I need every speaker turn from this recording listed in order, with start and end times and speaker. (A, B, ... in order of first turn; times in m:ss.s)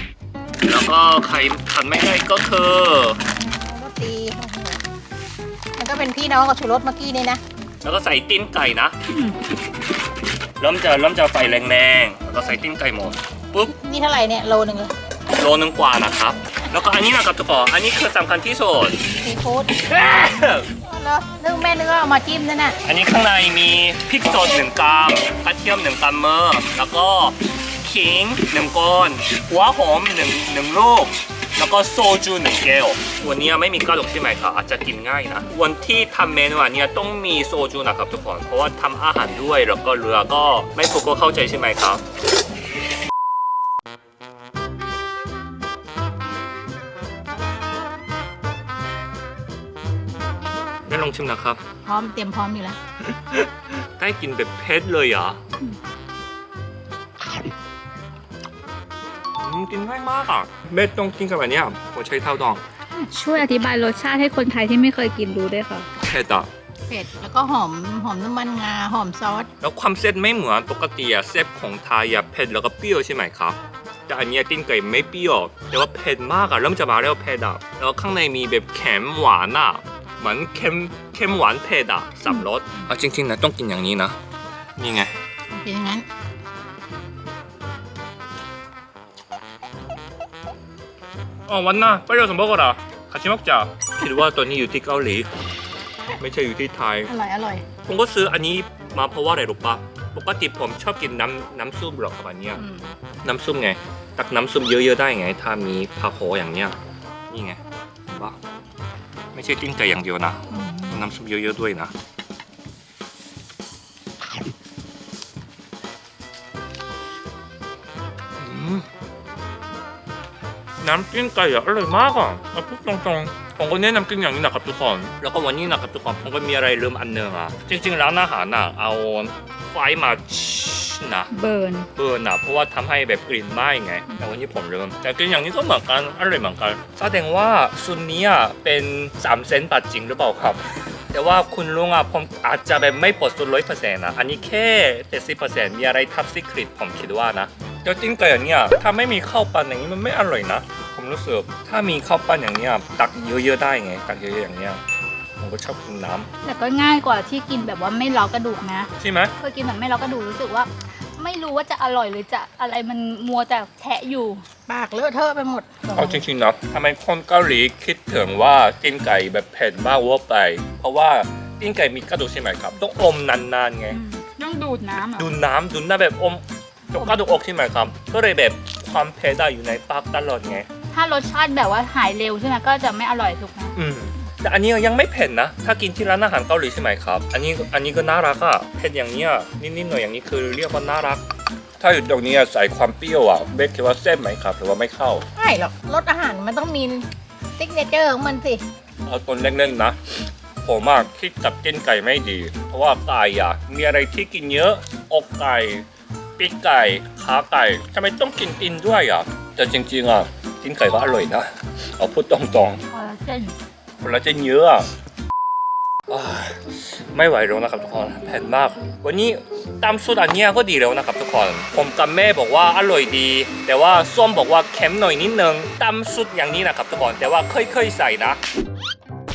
0:00.6-0:03.2 A
0:03.4-0:04.8 B
0:05.8-0:07.4 B
0:07.8-0:09.0 A
0:09.1-0:09.4 C
0:10.6-0:13.7 A
0:13.8-0:14.9 B
0:15.4-0:19.0 A
0:19.2-0:19.7 B
0:19.8-0:20.7 A
0:20.7-0:22.8 B
0:22.8-0:42.0 A
0:50.9-0:51.6 A
0:51.8-0:52.8 B
0:53.2-0:55.4 A
0:59.4-1:02.6 A
1:03.0-1:05.9 C
1:06.0-1:06.5 A
1:06.9-1:09.5 B
1:09.6-1:24.2 A
1:24.8-1:25.1 A
1:25.5-1:26.0 B
1:31.5-1:35.3 A
1:36.2-1:37.1 A
1:37.1-1:37.7 B
1:37.8-1:42.6 A
1:43.2-1:46.8 A
1:47.3-1:48.4 A
1:49.3-1:51.9 A
1:50.5-1:50.9 B
1:58.4-1:58.9 A
2:00.8-2:11.3 A
2:11.3-2:11.9 C
2:12.0-2:34.8 A
2:35.4-2:36.3 A
2:36.4-2:44.4 C
2:39.0-2:39.3 A
2:44.7-2:46.2 B
2:45.9-2:54.0 A
2:53.9-2:55.3 C
2:55.2-3:00.7 A
3:00.9-3:03.8 C
3:03.8-3:11.2 A
3:11.8-3:15.2 A
3:15.4-3:17.1 B
3:17.6-3:18.6 B
3:19.0-3:25.8 A
3:26.4-3:32.8 A
3:32.9-3:33.6 C
3:34.0-3:34.9 A
3:36.1-3:48.4 A